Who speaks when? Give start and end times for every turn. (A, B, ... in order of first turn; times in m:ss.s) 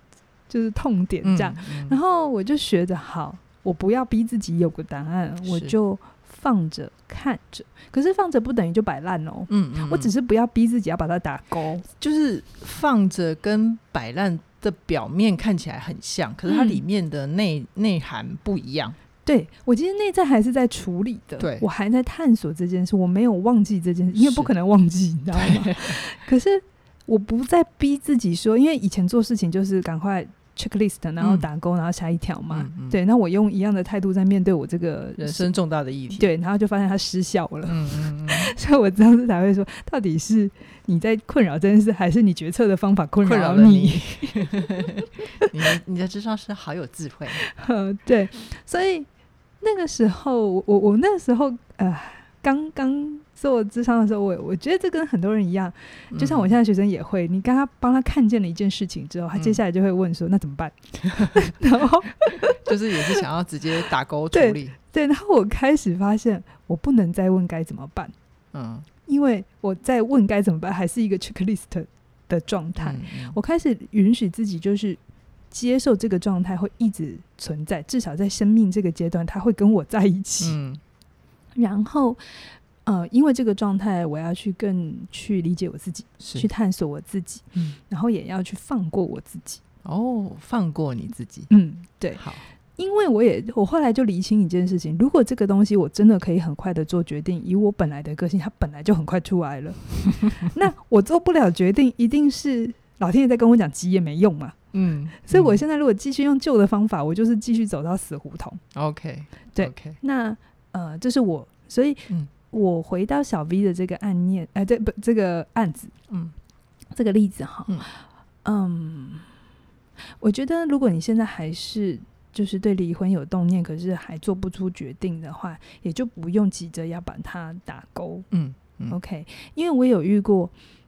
0:00.5-0:11.8 A
0:01.2-0:02.0 B
0:05.4-0:05.7 B
0:09.5-0:10.1 B
0:12.0-0:19.0 B
0:16.5-0:16.8 A
0:19.2-0:35.5 A
0:21.4-0:21.7 B
0:24.2-0:24.5 B
0:25.3-0:26.0 B
0:31.2-0:31.4 B
0:32.5-0:33.0 B
0:35.2-0:36.2 B
0:36.2-0:44.6 A
0:37.6-0:38.5 B
0:43.2-0:47.4 B
0:47.4-0:49.1 A
0:49.6-1:03.2 A
0:56.1-0:56.5 B
0:59.3-0:59.6 B
1:01.1-1:01.4 B
1:02.3-1:04.8 B
1:04.3-1:08.1 A
1:08.5-1:08.8 B
1:09.0-1:15.0 A
1:12.8-1:13.4 B
1:15.5-1:20.6 A
1:20.4-1:20.8 B
1:21.6-1:29.6 A
1:26.2-1:26.5 B
1:29.8-1:31.5 B
1:31.5-1:32.2 A
1:32.1-1:32.4 B
1:32.8-1:44.6 A
1:44.7-1:45.6 B
1:45.2-1:48.6 A
1:48.7-1:50.0 B
1:49.5-1:55.9 A
1:56.9-1:59.3 A
2:00.2-2:08.3 A
2:08.3-2:09.0 B
2:08.9-2:10.5 A